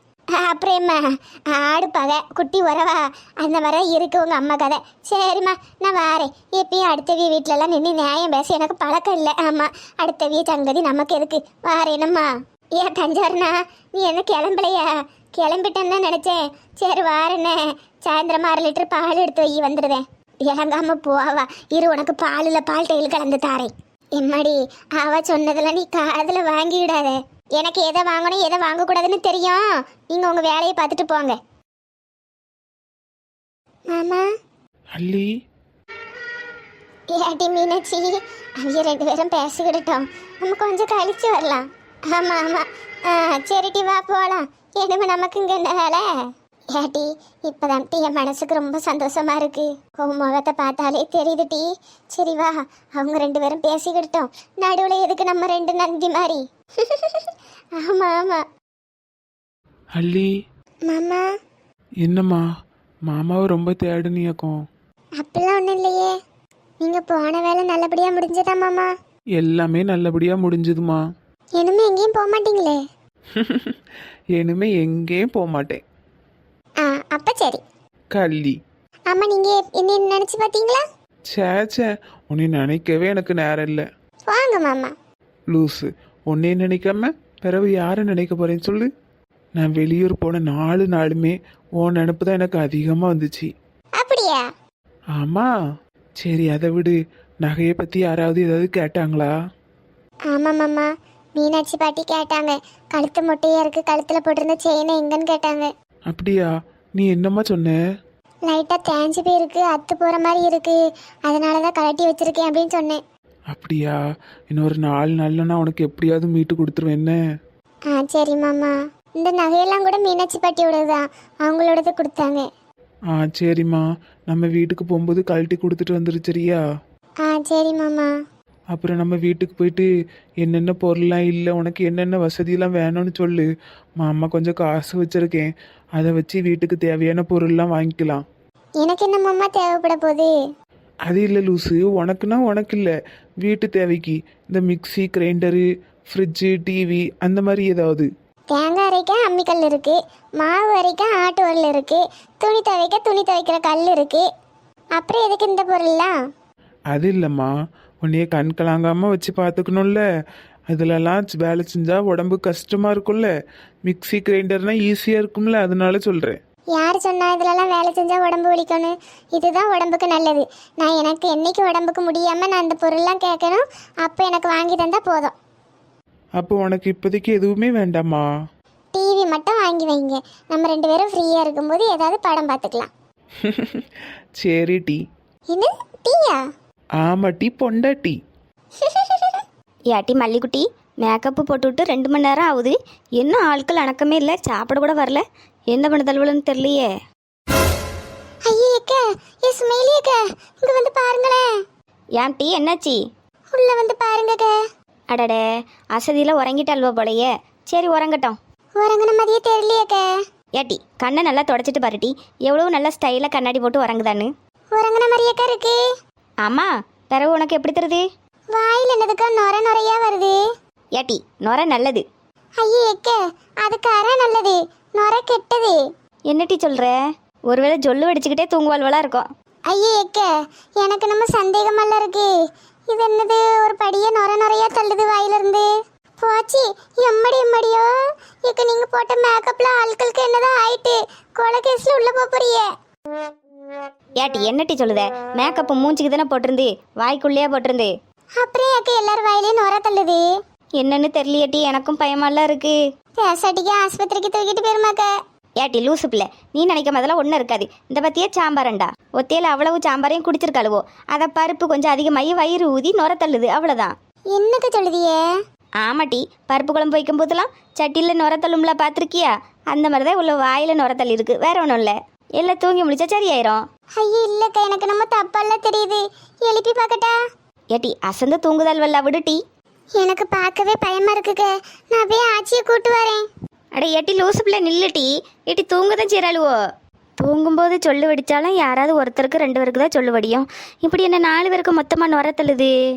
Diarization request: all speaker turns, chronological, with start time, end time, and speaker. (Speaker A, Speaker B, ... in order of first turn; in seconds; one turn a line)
Speaker A: 0.4-31.4
Speaker A: 33.9-34.2
Speaker B: 35.0-35.3
Speaker A: 37.1-46.0
Speaker A: 46.7-57.3
Speaker A: 57.8-58.4
Speaker B: 60.0-60.3
Speaker A: 60.9-61.2
Speaker B: 62.0-62.4
Speaker B: 63.1-64.5
Speaker A: 65.2-66.1
Speaker A: 66.8-68.9
Speaker B: 69.4-71.0
Speaker A: 71.6-72.8
Speaker B: 73.3-73.8
Speaker B: 74.3-75.8
Speaker A: 76.8-77.6
Speaker B: 78.1-78.5
Speaker A: 79.1-80.8
Speaker B: 81.3-83.8
Speaker A: 84.3-84.9
Speaker B: 85.5-88.9
Speaker B: 89.6-93.5
Speaker A: 94.0-94.4
Speaker B: 95.2-95.5
Speaker B: 96.2-99.3
Speaker A: 100.3-105.7
Speaker B: 106.1-107.8
Speaker A: 108.5-110.8
Speaker A: 111.3-113.0
Speaker B: 113.5-114.0
Speaker B: 114.5-117.2
Speaker A: 117.9-122.5
Speaker B: 123.1-126.6
Speaker A: 127.2-128.1
Speaker B: 128.7-129.9
Speaker B: 130.4-133.5
Speaker B: 134.0-138.2
Speaker A: 138.8-140.3
Speaker B: 141.1-148.1
Speaker A: 148.5-154.3
Speaker A: 154.9-156.2
Speaker B: 156.9-157.5
Speaker B: 158.0-160.0
Speaker B: 160.7-163.3
Speaker B: 163.9-166.4
Speaker A: 166.8-175.3
Speaker B: 176.4-178.3
Speaker A: 178.9-182.9
Speaker B: 183.4-183.8
Speaker B: 184.4-185.0
Speaker A: 185.5-186.4
Speaker B: 187.0-188.2
Speaker A: 188.8-189.4
Speaker C: 189.9-196.9
Speaker A: 198.5-201.4
Speaker C: 202.2-203.0
Speaker A: 203.5-204.5
Speaker C: 205.1-205.4
Speaker C: 205.9-208.4
Speaker A: 208.8-210.0
Speaker C: 210.6-214.3
Speaker A: 214.7-215.8
Speaker C: 216.4-218.0
Speaker A: 218.5-220.3
Speaker C: 220.9-222.0
Speaker A: 222.6-225.8
Speaker C: 226.3-226.9
Speaker C: 227.5-229.3
Speaker A: 229.7-230.3
Speaker A: 230.8-232.3
Speaker A: 232.9-235.7
Speaker A: 236.2-237.9
Speaker A: 238.4-242.7
Speaker C: 244.2-247.9
Speaker A: 248.4-250.2
Speaker C: 250.8-252.8
Speaker A: 253.2-255.1
Speaker C: 255.6-263.9
Speaker A: 264.3-265.2
Speaker C: 265.8-273.6
Speaker A: 274.0-277.1
Speaker C: 277.7-279.4
Speaker A: 280.0-283.2
Speaker C: 283.8-286.6
Speaker C: 287.2-292.7